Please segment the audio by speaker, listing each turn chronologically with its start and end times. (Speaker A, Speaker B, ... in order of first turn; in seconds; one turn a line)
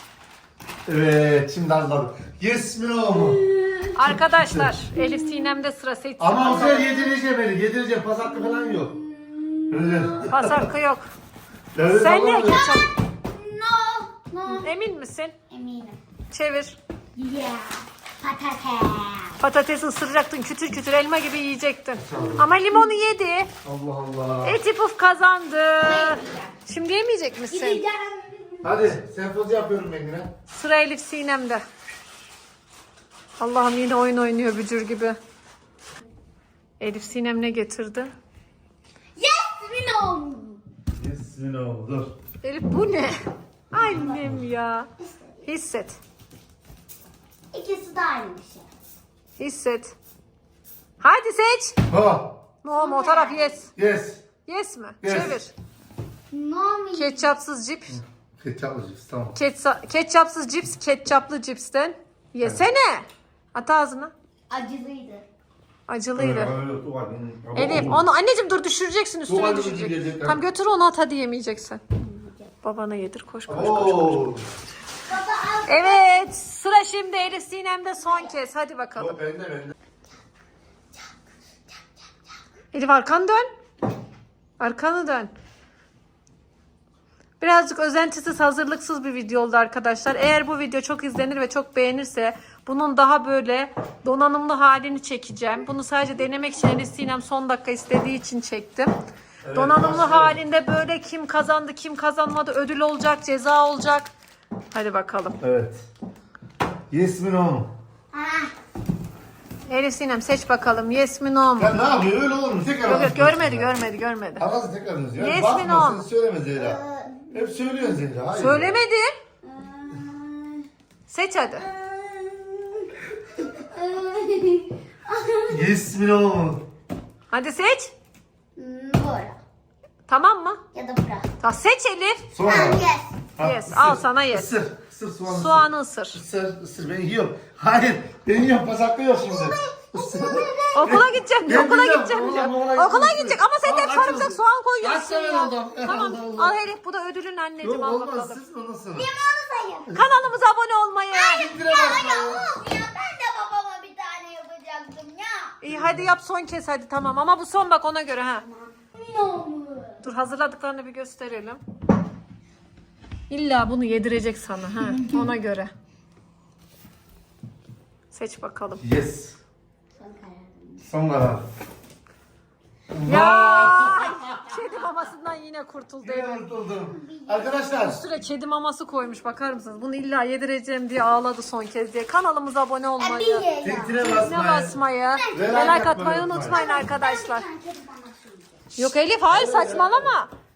Speaker A: 0.8-3.4
Speaker B: 3.1-3.9
Speaker C: 3.9-6.9
Speaker B: 4.9-5.5
Speaker A: 6.2-8.9
Speaker B: 6.5-7.2
Speaker B: 8.2-10.3
Speaker A: 9.7-10.7
Speaker C: 10.3-11.1
Speaker A: 11.7-12.7
Speaker C: 11.8-12.9
Speaker B: 12.4-14.7
Speaker C: 14.5-15.3
Speaker B: 15.5-16.0
Speaker C: 16.3-16.8
Speaker B: 17.1-19.4
Speaker C: 19.4-23.5
Speaker A: 22.0-22.5
Speaker A: 23.6-24.6
Speaker C: 24.4-27.8
Speaker B: 25.8-26.5
Speaker B: 27.5-28.8
Speaker A: 28.6-30.3
Speaker C: 30.5-31.6
Speaker C: 33.4-35.2
Speaker C: 36.8-38.1
Speaker B: 39.1-40.6
Speaker A: 41.0-42.1
Speaker C: 42.4-44.9
Speaker A: 43.8-44.4
Speaker B: 43.8-44.3
Speaker B: 45.0-45.5
Speaker C: 45.4-46.0
Speaker B: 47.5-48.6
Speaker C: 49.4-49.9
Speaker C: 51.0-51.8
Speaker A: 51.9-52.4
Speaker C: 52.6-53.7
Speaker B: 52.8-53.6
Speaker A: 53.8-54.2
Speaker C: 54.5-55.5
Speaker A: 55.0-55.4
Speaker B: 56.3-57.3
Speaker C: 57.0-58.0
Speaker A: 57.9-59.3
Speaker C: 59.3-64.1
Speaker B: 64.5-65.2
Speaker C: 65.9-66.5
Speaker A: 66.2-68.0
Speaker C: 67.5-71.8
Speaker A: 69.3-70.4
Speaker B: 72.0-72.5
Speaker C: 72.6-74.2
Speaker A: 73.5-74.4
Speaker B: 75.0-76.3
Speaker C: 75.7-79.2
Speaker B: 78.0-78.3
Speaker A: 79.0-79.7
Speaker B: 81.7-82.1
Speaker C: 82.7-83.5
Speaker C: 84.6-85.3
Speaker C: 87.4-98.9
Speaker A: 99.4-100.4
Speaker C: 99.5-104.1
Speaker C: 104.7-105.4
Speaker A: 105.4-105.8
Speaker A: 106.9-107.7
Speaker B: 108.1-108.5
Speaker C: 109.7-111.7
Speaker A: 111.6-113.7
Speaker C: 112.8-114.4
Speaker A: 114.4-118.8
Speaker C: 115.2-116.0
Speaker B: 116.5-117.3
Speaker C: 118.3-119.1
Speaker B: 119.4-120.7
Speaker C: 121.1-121.7
Speaker B: 121.5-125.6
Speaker A: 125.5-126.7
Speaker C: 127.3-127.9
Speaker B: 128.6-129.4
Speaker C: 130.1-130.6
Speaker B: 130.7-131.3
Speaker C: 131.4-132.3
Speaker A: 132.3-146.6
Speaker B: 132.4-133.2
Speaker C: 133.4-134.5
Speaker C: 135.2-136.2
Speaker B: 139.2-141.0
Speaker C: 140.7-148.4
Speaker A: 147.6-149.1
Speaker B: 148.9-149.9
Speaker A: 149.9-150.3
Speaker C: 149.9-151.5
Speaker B: 151.1-155.6
Speaker A: 151.3-152.5
Speaker C: 155.6-158.4
Speaker A: 155.7-156.1
Speaker B: 158.5-160.0
Speaker C: 160.0-161.6
Speaker C: 163.3-165.7
Speaker B: 164.8-165.3
Speaker C: 168.1-168.8
Speaker A: 168.8-169.4
Speaker B: 170.0-170.8
Speaker A: 170.8-171.4
Speaker A: 172.9-174.4
Speaker C: 173.0-176.4
Speaker A: 176.0-178.0
Speaker B: 176.9-177.8
Speaker C: 177.8-183.4
Speaker B: 183.0-184.3
Speaker A: 183.6-184.8
Speaker C: 184.0-187.4
Speaker B: 185.1-185.8
Speaker A: 185.3-186.6
Speaker B: 186.5-188.6
Speaker C: 188.8-190.3
Speaker A: 189.3-190.1